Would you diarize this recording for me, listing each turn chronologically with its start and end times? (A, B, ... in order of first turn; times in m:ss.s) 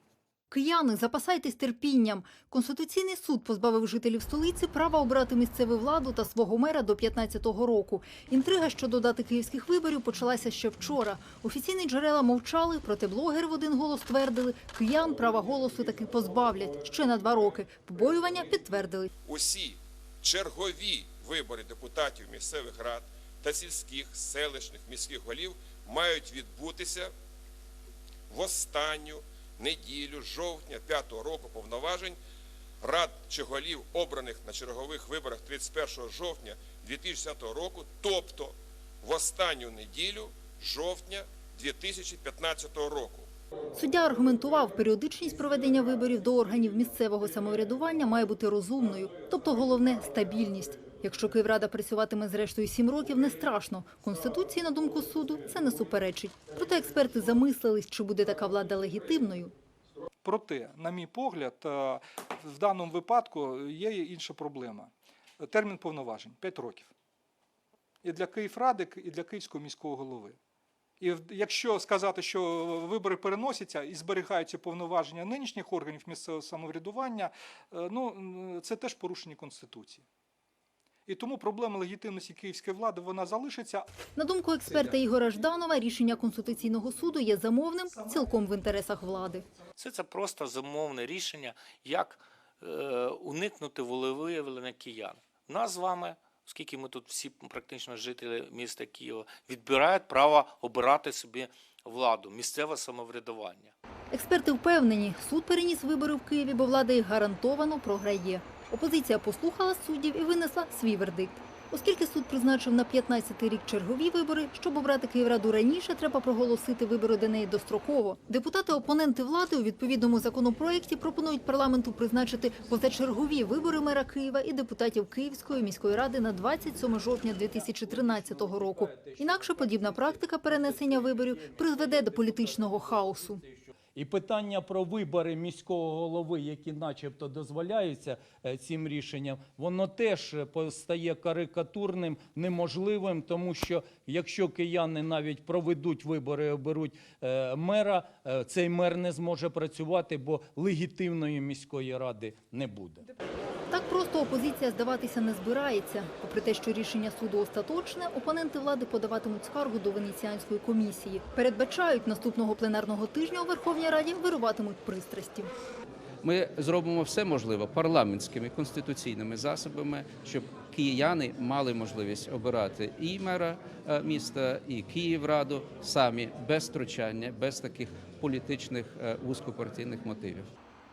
0:00.5-0:19.1 A
0:19.2-0:27.1 B
0:28.3-0:32.2 B
0:32.8-0:43.3 B
0:43.7-0:59.5 A
1:00.2-1:06.9 C
1:08.0-1:10.4 C
1:11.0-1:20.0 C
1:21.1-1:23.9 C
1:24.2-1:29.4 A
1:29.8-1:43.7 D
1:44.1-2:13.4 A
2:13.9-2:33.0 E
2:33.7-2:45.5 A
2:46.2-3:00.5 F